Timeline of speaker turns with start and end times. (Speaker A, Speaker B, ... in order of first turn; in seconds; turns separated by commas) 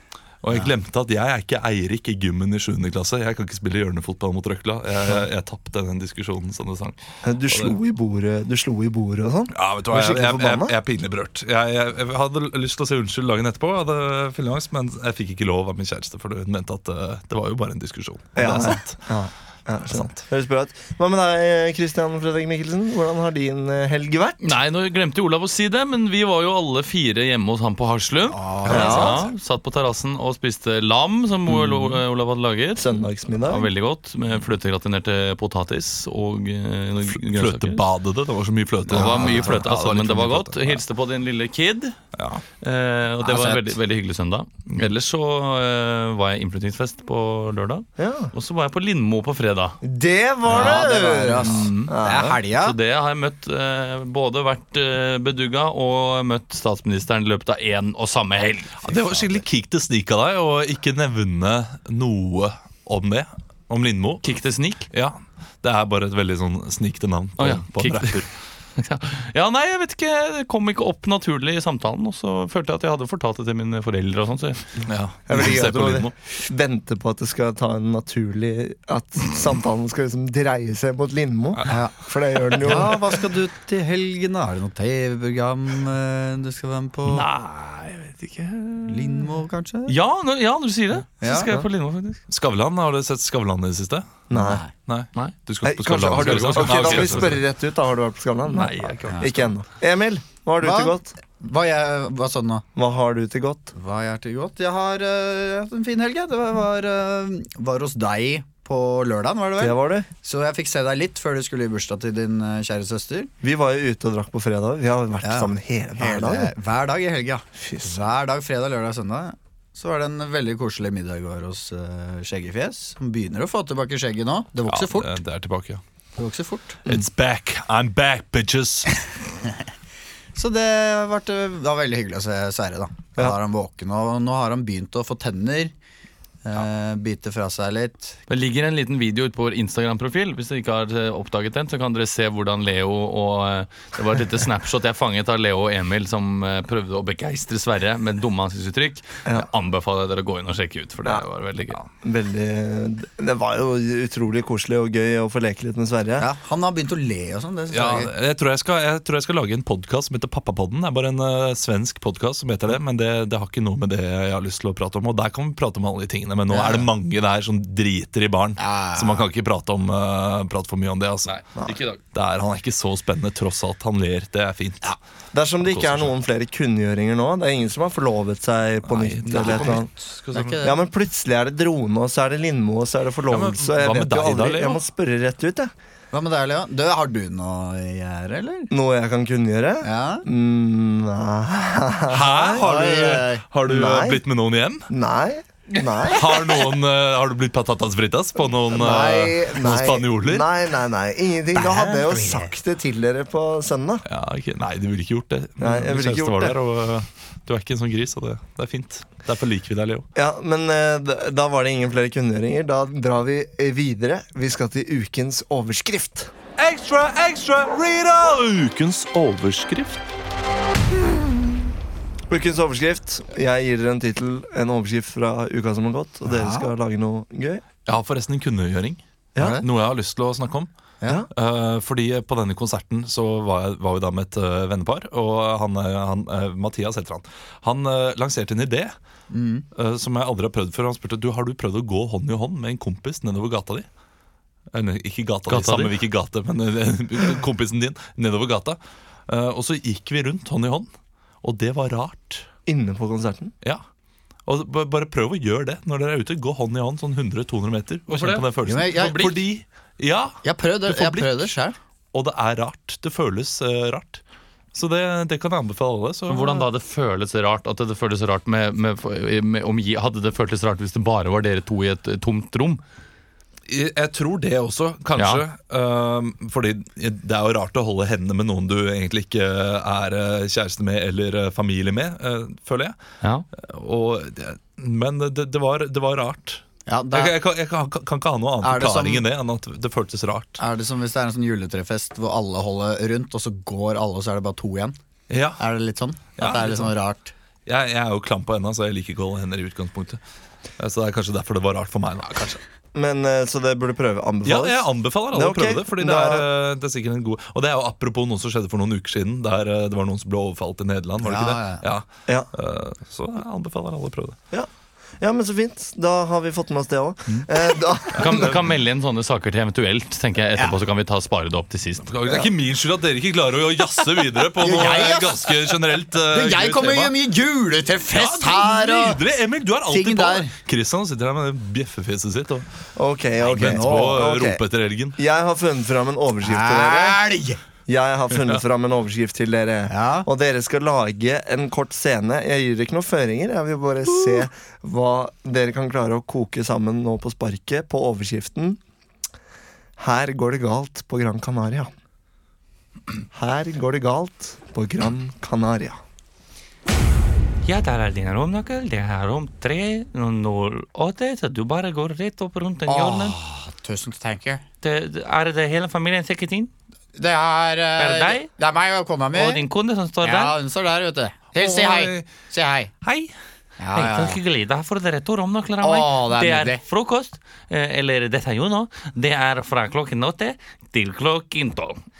Speaker A: 0.4-7.8, Speaker B: 7.2-10.8, Speaker A: 9.5-19.0, Speaker B: 18.4-24.6, Speaker C: 24.4-37.8, Speaker D: 28.3-29.2, Speaker A: 28.7-29.3, Speaker B: 28.7-29.2, Speaker B: 32.8-33.7, Speaker A: 37.1-40.8, Speaker C: 38.9-42.0, Speaker A: 42.2-42.4, Speaker C: 42.6-49.8, Speaker D: 43.2-43.8, Speaker B: 48.0-48.3, Speaker B: 49.8-52.4, Speaker D: 50.5-52.8, Speaker C: 50.5-50.9, Speaker C: 51.5-52.0, Speaker C: 52.6-59.4, Speaker A: 58.8-64.2, Speaker C: 64.2-64.9, Speaker A: 64.9-68.3, Speaker C: 67.4-68.2, Speaker C: 68.8-74.8, Speaker A: 74.8-76.1, Speaker B: 75.3-83.1, Speaker D: 81.7-82.0, Speaker D: 82.5-87.3, Speaker C: 87.1-89.3, Speaker D: 88.9-90.0, Speaker C: 89.9-92.2, Speaker D: 91.2-91.5, Speaker A: 92.3-94.2, Speaker B: 94.3-94.6, Speaker D: 94.3-94.7, Speaker A: 94.8-97.4, Speaker B: 95.6-101.1, Speaker C: 96.1-97.4, Speaker C: 98.5-99.5, Speaker D: 100.6-102.7, Speaker B: 102.8-103.7, Speaker D: 103.7-113.3, Speaker B: 109.6-110.1, Speaker B: 113.4-116.5, Speaker D: 115.2-125.2, Speaker B: 117.6-117.9, Speaker A: 124.7-125.8, Speaker D: 126.2-126.8, Speaker A: 126.9-129.1, Speaker D: 130.3-135.7, Speaker D: 136.4-138.2, Speaker C: 138.3-151.8, Speaker B: 152.0-156.3, Speaker D: 156.2-158.1, Speaker A: 157.7-171.4, Speaker D: 166.5-166.9, Speaker D: 168.6-169.3, Speaker C: 171.3-172.0, Speaker A: 172.1-175.0, Speaker B: 175.3-179.9, Speaker A: 175.6-176.1, Speaker A: 178.9-180.6, Speaker D: 179.3-180.9, Speaker B: 180.6-185.7, Speaker A: 183.3-184.8, Speaker D: 186.1-188.7, Speaker B: 188.7-194.2, Speaker D: 189.8-190.3, Speaker A: 192.1-194.9, Speaker D: 192.6-193.4, Speaker B: 194.9-196.4, Speaker A: 196.1-200.5, Speaker D: 198.7-199.8, Speaker B: 199.5-204.0, Speaker D: 201.5-202.5, Speaker A: 204.1-210.1, Speaker B: 205.6-206.6, Speaker B: 210.2-216.3, Speaker A: 216.6-220.0, Speaker B: 222.3-227.6, Speaker D: 226.3-226.7, Speaker A: 227.9-230.7, Speaker B: 229.4-229.6, Speaker B: 231.0-231.3, Speaker A: 231.3-238.9, Speaker D: 239.3-239.7, Speaker A: 239.8-243.9, Speaker A: 244.7-250.9, Speaker C: 245.5-245.9, Speaker A: 251.4-252.5, Speaker B: 252.7-253.5, Speaker A: 254.5-261.5, Speaker C: 258.1-258.4, Speaker D: 258.6-259.4, Speaker D: 260.4-261.8, Speaker A: 262.1-264.2, Speaker A: 264.7-266.7, Speaker C: 266.3-272.8, Speaker A: 273.7-283.0, Speaker C: 275.2-275.4, Speaker A: 283.5-290.6, Speaker D: 286.9-287.4, Speaker D: 288.6-289.2, Speaker D: 290.6-295.0, Speaker A: 295.3-295.6, Speaker D: 295.6-297.3, Speaker A: 296.4-296.9, Speaker A: 297.7-300.2, Speaker A: 300.8-302.6, Speaker B: 302.9-306.5, Speaker A: 304.4-314.4, Speaker D: 311.2-311.8, Speaker B: 315.2-318.6, Speaker C: 318.1-322.1, Speaker A: 318.2-318.6, Speaker A: 322.0-327.1, Speaker D: 324.6-325.6, Speaker D: 326.1-329.2, Speaker A: 328.1-332.7, Speaker D: 329.9-330.5, Speaker B: 333.0-334.6, Speaker D: 333.5-334.2, Speaker A: 333.5-335.2, Speaker B: 335.2-337.2, Speaker D: 336.4-337.6, Speaker B: 337.9-348.8, Speaker D: 339.9-340.3, Speaker B: 350.0-351.9, Speaker B: 353.3-356.0, Speaker E: 357.6-363.4, Speaker D: 362.9-364.6, Speaker E: 364.8-366.7, Speaker D: 367.2-369.7, Speaker E: 368.0-368.5, Speaker E: 369.3-370.6, Speaker D: 370.2-372.9, Speaker A: 371.6-372.3, Speaker A: 373.0-373.3, Speaker D: 373.8-374.4, Speaker E: 373.9-382.0, Speaker D: 375.8-376.8